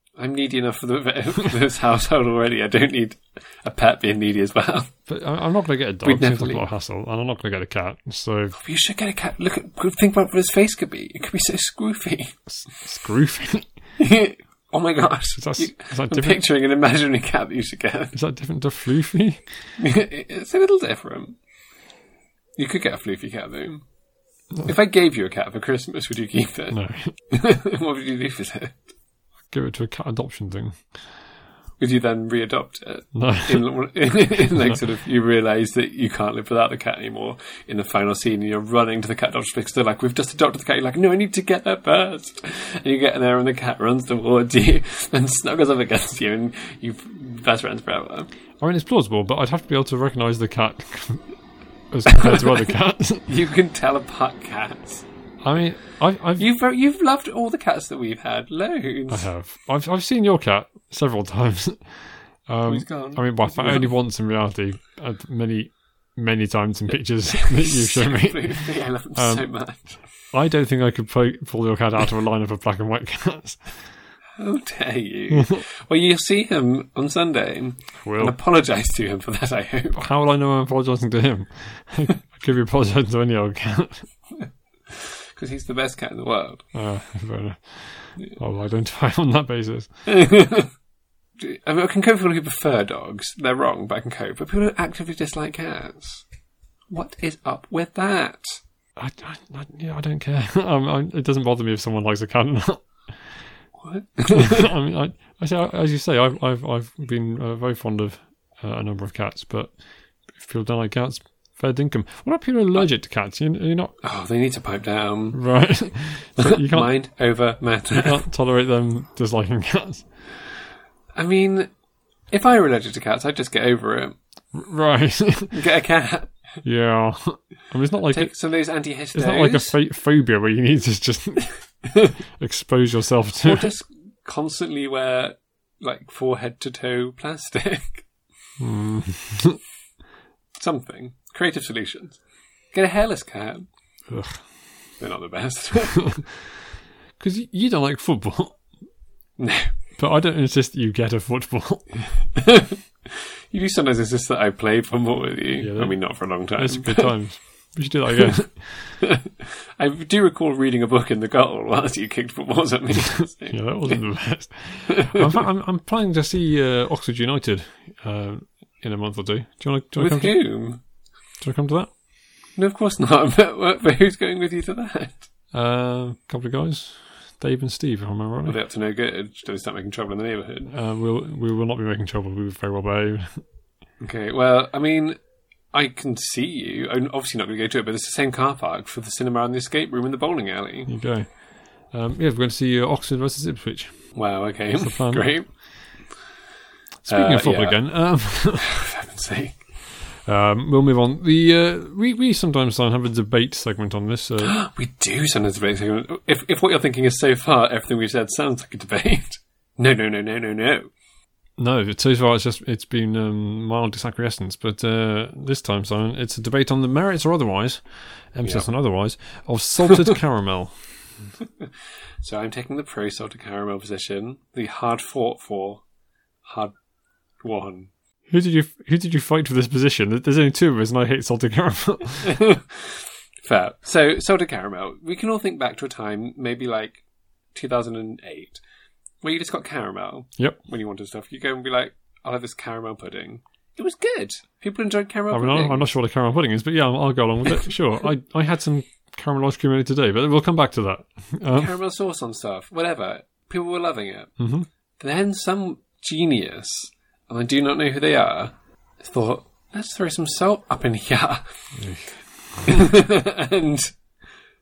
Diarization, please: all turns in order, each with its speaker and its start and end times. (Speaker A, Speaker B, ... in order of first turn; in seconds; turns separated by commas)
Speaker A: 0.2-4.9, Speaker B: 5.1-8.6, Speaker A: 6.0-6.7, Speaker A: 8.6-12.4, Speaker B: 12.5-13.7, Speaker A: 14.0-18.2, Speaker B: 15.4-16.4, Speaker B: 18.1-19.4, Speaker A: 19.8-21.4, Speaker A: 22.6-23.8, Speaker A: 24.6-28.8, Speaker B: 26.7-27.1, Speaker B: 29.5-30.9, Speaker A: 31.8-48.3, Speaker B: 33.1-33.7, Speaker B: 48.6-51.2, Speaker B: 51.9-53.3, Speaker A: 52.1-52.6, Speaker A: 53.3-55.0, Speaker B: 55.4-56.5, Speaker A: 56.4-59.3, Speaker B: 59.1-69.5, Speaker A: 62.6-63.9, Speaker A: 67.3-70.0, Speaker B: 70.3-73.9, Speaker A: 74.4-80.0, Speaker B: 75.3-75.6, Speaker B: 78.0-78.4, Speaker B: 80.0-84.1, Speaker A: 84.4-86.7, Speaker B: 86.7-89.9, Speaker A: 90.1-90.7, Speaker A: 91.4-96.2, Speaker A: 96.9-98.6, Speaker B: 99.0-103.4, Speaker A: 103.8-104.7, Speaker B: 104.3-109.7, Speaker B: 110.3-113.9, Speaker A: 114.0-115.4, Speaker B: 115.3-116.9, Speaker A: 116.4-118.2, Speaker B: 117.9-120.6, Speaker A: 121.2-121.7, Speaker A: 122.3-124.2, Speaker B: 124.5-125.6, Speaker A: 125.5-126.6, Speaker B: 126.6-128.3, Speaker A: 128.1-129.8, Speaker B: 129.1-133.7, Speaker A: 133.4-138.1, Speaker B: 138.6-139.6, Speaker A: 140.6-142.2, Speaker A: 142.7-143.7, Speaker B: 144.1-144.5, Speaker A: 145.0-146.1, Speaker B: 146.0-146.3, Speaker B: 147.2-148.6, Speaker A: 149.4-149.7, Speaker B: 150.0-152.1, Speaker A: 152.3-157.2, Speaker B: 155.6-159.0, Speaker A: 159.0-164.0, Speaker B: 163.5-170.4, Speaker A: 164.9-165.3, Speaker A: 170.0-170.8, Speaker B: 171.4-171.9, Speaker A: 172.6-175.3, Speaker B: 175.5-178.6, Speaker A: 178.5-180.7, Speaker B: 180.7-183.4, Speaker A: 184.0-185.2, Speaker A: 185.7-190.9, Speaker B: 190.9-191.3, Speaker B: 191.9-194.2, Speaker A: 194.2-195.5, Speaker B: 194.8-195.6, Speaker B: 197.0-198.7, Speaker A: 197.1-199.6, Speaker B: 200.2-204.6, Speaker A: 204.4-210.9, Speaker B: 211.6-220.9, Speaker A: 222.2-225.8, Speaker A: 226.4-226.7, Speaker A: 227.4-227.9, Speaker B: 228.3-232.4, Speaker A: 232.2-237.0, Speaker A: 237.5-238.6, Speaker A: 239.2-245.9, Speaker B: 245.3-251.7, Speaker A: 251.5-254.3, Speaker B: 254.4-254.7, Speaker A: 255.0-261.4, Speaker B: 261.8-262.8, Speaker A: 262.6-263.9